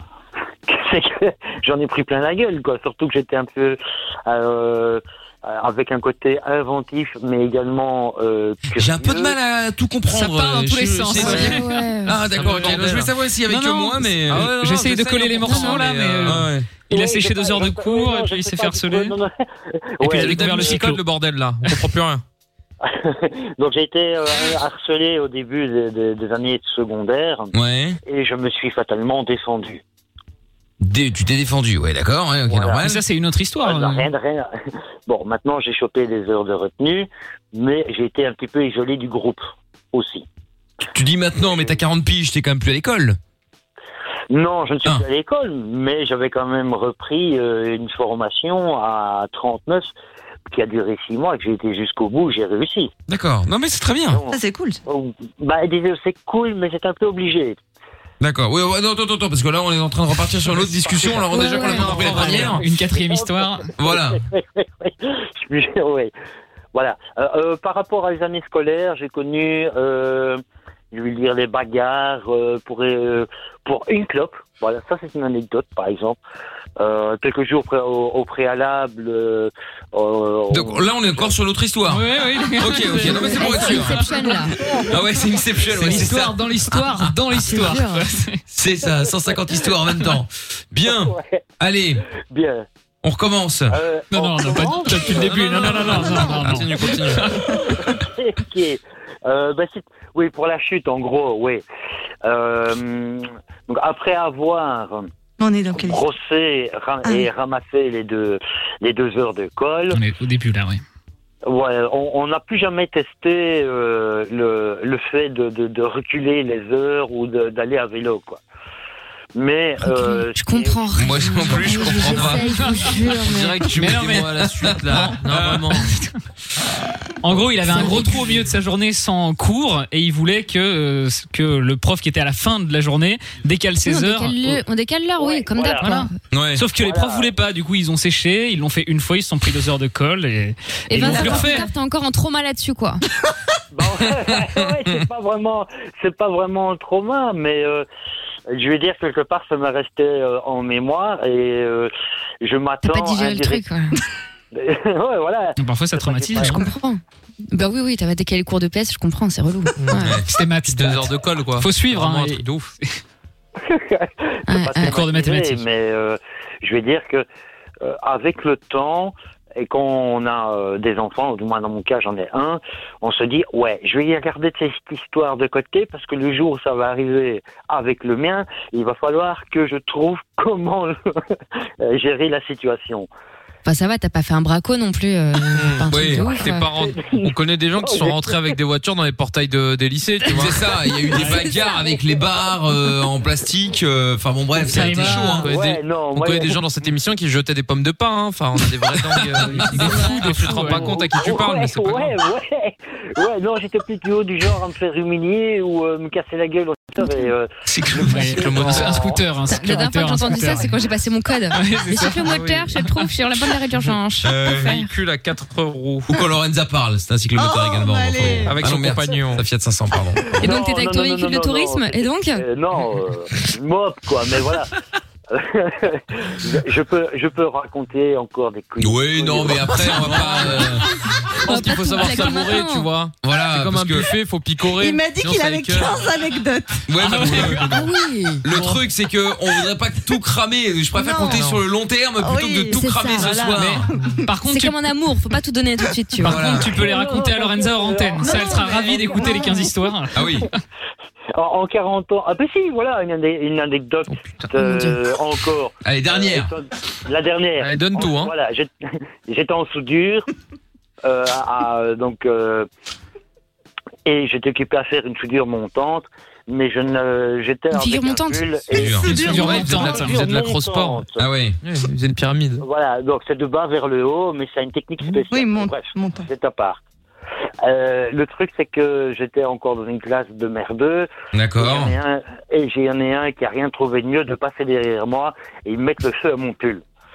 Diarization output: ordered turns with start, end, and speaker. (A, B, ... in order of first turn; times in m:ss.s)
0:00.7-0:09.4 A
0:08.8-0:16.7 B
0:10.1-0:11.8 C
0:11.2-0:12.2 D
0:12.3-0:13.1 E
0:13.4-0:19.1 C
0:14.3-0:14.8 E
0:15.4-0:15.8 D
0:15.5-0:16.5 E
0:16.9-0:20.7 A
0:20.0-0:22.2 E
0:20.0-0:21.0 C
0:22.8-0:29.8 A
0:27.5-0:28.0 B
0:30.8-0:33.0 B
0:32.4-0:32.8 A
0:32.8-0:34.1 C
0:33.6-0:34.5 A
0:35.1-0:40.2 A
0:40.8-0:43.2 B
0:41.3-0:41.8 A
0:44.3-0:49.9 A
0:50.5-0:52.9 A
0:53.1-0:54.2 B
0:54.1-0:57.6 A
0:54.3-0:54.8 F
0:58.2-1:02.6 B
1:00.6-1:06.1 A
1:01.3-1:03.7 C
1:01.4-1:01.7 D
1:03.8-1:04.2 B
1:06.7-1:16.2 A
1:16.8-1:21.3 A
1:20.5-1:27.1 B
1:21.9-1:24.4 C
1:23.1-1:24.6 D
1:25.6-1:28.4 C
1:27.5-1:28.0 D
1:28.5-1:32.0 B
1:28.9-1:29.6 A
1:30.8-1:31.4 A
1:32.0-1:32.6 A
1:33.0-1:33.8 B
1:33.7-1:36.0 A
1:34.1-1:37.4 C
1:35.2-1:37.3 E
1:37.6-1:41.6 A
1:42.2-1:45.1 A
1:45.4-1:46.0 F
1:45.7-1:50.0 A
1:49.9-1:50.8 C
1:51.4-1:58.4 A
1:59.3-2:00.9 A
1:59.8-2:03.7 D
2:00.9-2:02.5 B
2:01.7-2:02.3 E
2:02.4-2:03.1 C
2:03.2-2:05.7 E
2:03.7-2:04.4 C
2:04.6-2:05.8 B
2:05.8-2:06.1 C
2:07.2-2:14.6 C
2:07.7-2:08.1 D
2:13.8-2:16.1 D
2:15.2-2:16.0 A
2:15.8-2:21.7 C
2:16.3-2:16.6 B
2:16.7-2:17.3 A
2:20.9-2:23.0 D
2:21.0-2:21.7 F
2:23.7-2:27.8 A
2:28.5-2:31.9 A
2:32.4-2:33.7 A
2:32.8-2:34.0 D
2:34.5-2:36.5 A
2:35.6-2:36.6 C
2:36.4-2:37.0 D
2:37.5-2:40.2 D
2:39.8-2:40.1 E
2:39.9-2:40.3 B
2:40.2-2:42.9 C
2:40.6-2:42.7 E
2:43.6-2:47.3 A
2:44.5-2:45.0 D
2:44.8-2:45.6 C
2:47.8-3:03.1 A
3:03.6-3:06.7 D
3:05.5-3:10.6 E
3:05.9-3:06.4 B
3:06.7-3:08.5 A
3:10.3-3:15.5 B
3:11.1-3:11.5 C
3:14.7-3:15.4 C
3:15.3-3:22.1 E
3:15.4-3:16.6 A
3:19.4-3:21.1 C
3:19.6-3:20.0 B
3:20.9-3:29.2 A
3:27.8-3:29.1 E
3:28.0-3:30.8 C
3:29.4-3:34.9 D
3:31.5-3:33.1 C
3:32.2-3:32.6 E
3:33.8-3:36.1 E
3:34.2-3:34.7 B
3:36.1-3:40.4 B
3:37.4-3:38.7 F
3:38.4-3:39.4 E
3:40.3-3:44.7 A
3:40.4-3:42.4 D
3:45.3-3:50.0 A
3:48.8-3:50.8 B
3:49.8-3:50.7 E
3:51.4-3:56.0 E
3:51.4-3:52.9 D
3:53.2-3:54.1 B
3:54.8-3:56.8 F
3:56.9-3:57.6 B
3:57.0-3:57.6 C
3:57.1-3:57.9 E
3:57.7-3:58.4 D
3:58.4-4:03.8 B
3:58.5-3:58.8 E
4:00.9-4:01.5 F
4:01.3-4:01.6 E
4:02.2-4:04.1 F
4:02.7-4:03.5 D
4:03.6-4:04.8 C
4:04.4-4:06.5 D
4:06.2-4:10.6 C
4:06.2-4:06.8 B
4:06.6-4:09.6 A
4:08.2-4:08.6 F
4:09.1-4:09.7 F
4:10.1-4:10.5 B
4:11.3-4:18.7 A
4:14.1-4:14.4 E
4:14.5-4:15.0 D
4:15.8-4:16.5 B
4:17.6-4:18.3 E
4:19.2-4:20.3 A
4:21.0-4:22.7 A
4:24.0-4:31.2 A
4:27.7-4:28.4 D
4:28.7-4:29.1 B
4:29.0-4:29.6 F
4:29.0-4:30.3 C
4:29.1-4:31.0 E
4:31.2-4:31.6 B
4:31.6-4:32.6 E
4:32.6-4:36.8 A
4:35.3-4:36.3 F
4:37.6-4:46.8 A
4:41.3-4:41.9 B